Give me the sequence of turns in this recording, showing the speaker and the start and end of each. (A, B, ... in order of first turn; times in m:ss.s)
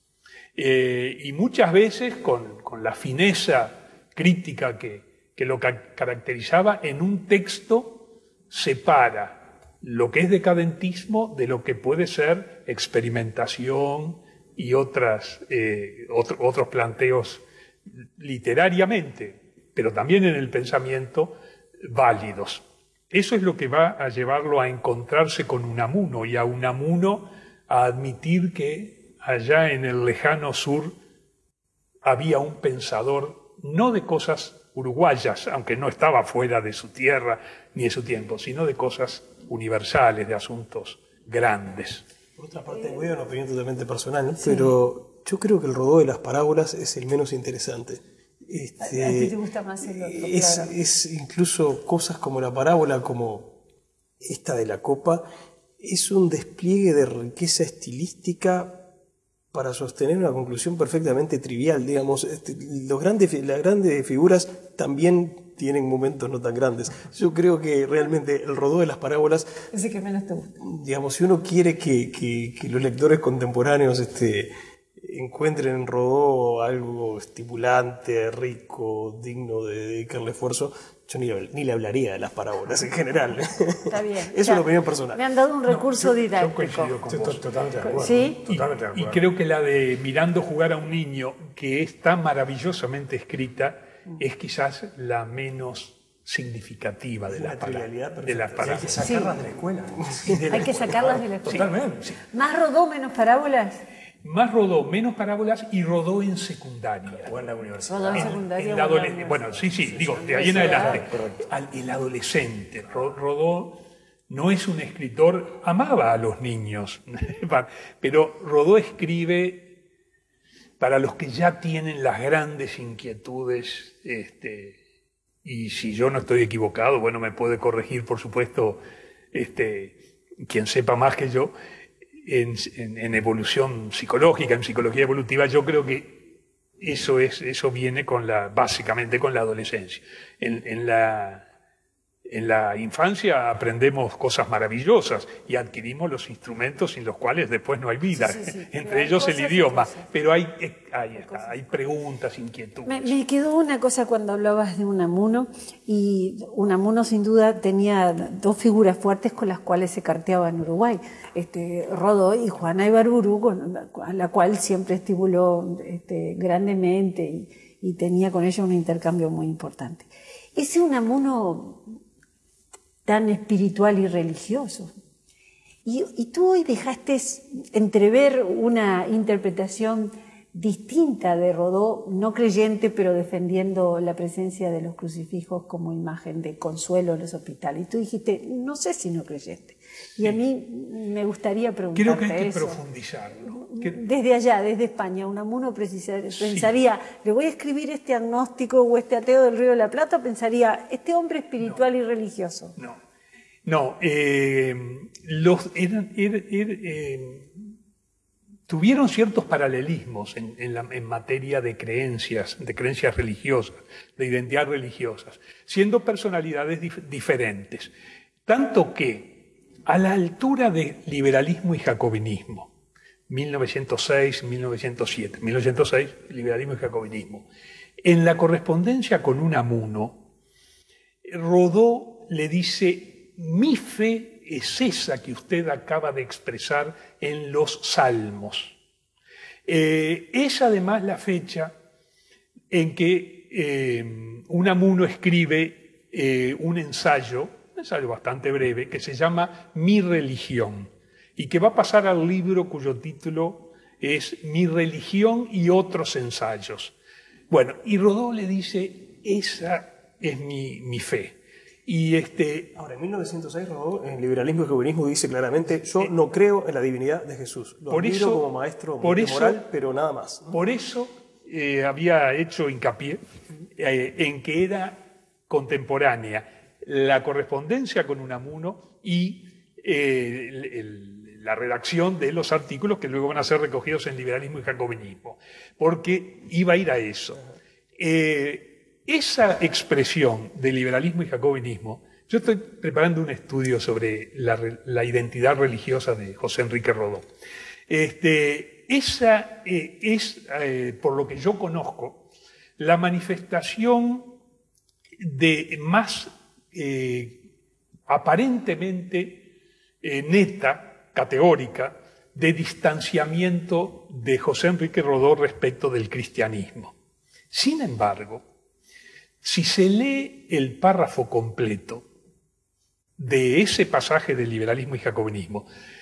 0:00.6-0:17.4 A
0:18.2-0:31.0 A
0:32.0-0:42.0 A
0:42.4-0:49.4 B
0:42.7-0:43.1 C
0:44.4-0:44.8 C
0:48.8-0:50.7 C
0:49.9-0:53.6 B
0:54.2-0:55.2 B
0:55.8-0:58.8 B
0:59.5-1:09.5 B
1:09.7-1:10.6 C
1:10.6-1:25.2 B
1:23.9-1:27.0 C
1:25.7-1:27.5 A
1:27.1-1:29.2 D
1:27.8-1:28.4 C
1:28.5-1:39.0 A
1:37.3-1:39.0 B
1:38.6-1:42.2 D
1:39.0-1:39.4 C
1:40.0-1:40.3 B
1:40.3-1:41.7 C
1:42.3-1:43.8 C
1:44.2-1:47.3 A
1:47.2-1:48.4 D
1:47.9-1:51.0 C
1:48.1-1:53.8 A
1:50.1-1:51.5 D
1:54.3-1:59.7 A
2:00.8-2:04.8 A
2:05.4-2:08.8 A
2:09.3-2:11.5 A
2:12.2-2:16.3 A
2:16.8-2:21.4 A
2:22.3-2:33.2 A
2:28.1-2:30.1 C
2:32.9-2:51.8 C
2:53.1-2:54.9 C
2:55.8-3:12.8 C
3:12.0-3:14.0 A
3:13.5-3:22.8 C
3:16.4-3:16.7 A
3:23.6-3:27.6 A
3:28.7-3:37.9 A
3:38.5-3:42.7 A
3:43.3-3:47.5 A
3:48.0-3:50.2 A
3:51.2-3:58.8 A
3:59.7-4:01.7 A
4:02.7-4:17.0 A
4:17.5-4:22.8 A
4:22.8-4:30.6 B
4:27.9-4:28.5 A
4:29.0-4:29.7 A
4:30.5-4:33.2 A
4:33.8-4:47.4 A
4:48.0-4:57.3 A
4:57.9-5:02.3 A
5:02.8-5:04.4 A
5:05.2-5:07.4 A
5:08.1-5:09.5 A
5:10.0-5:16.9 A
5:17.5-5:18.4 A
5:19.4-5:22.0 A
5:23.2-5:25.7 A